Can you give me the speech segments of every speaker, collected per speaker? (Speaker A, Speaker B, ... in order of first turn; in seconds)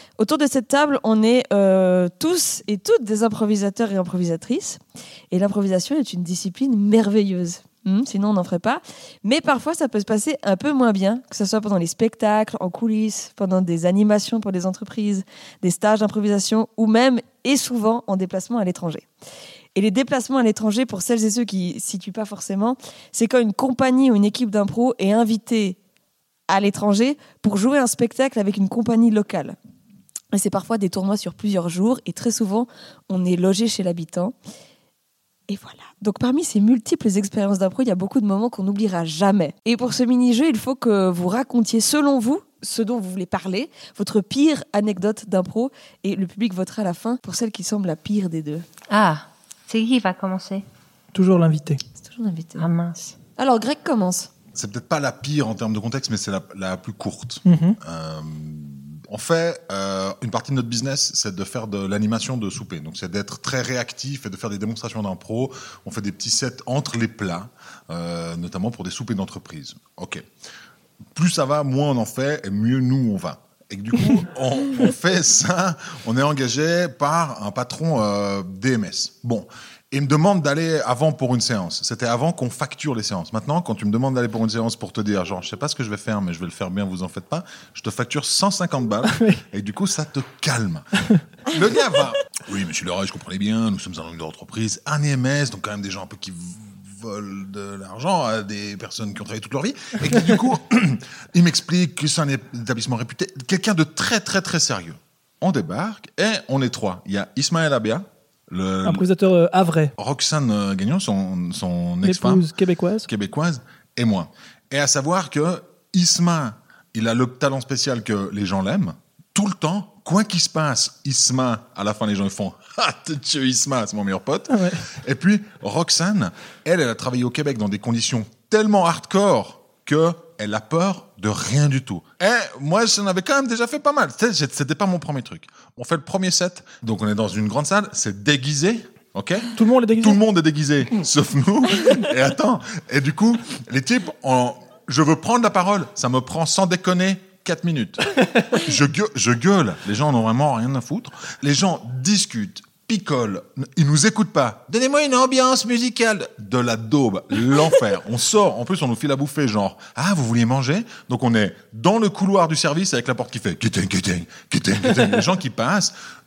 Speaker A: 0.2-19.1, 19.8-25.8, 26.5-29.6, 30.3-34.4, 35.5-48.6, 52.0-52.7, 53.4-54.3
Speaker B: 48.9-50.6, 52.6-53.1
Speaker C: 51.1-51.8, 57.4-57.8, 89.0-89.4, 108.8-109.9, 112.0-113.1, 124.5-124.8, 139.6-140.2
Speaker D: 54.5-70.2, 71.2-90.9, 91.5-109.1, 110.0-112.5, 113.1-165.9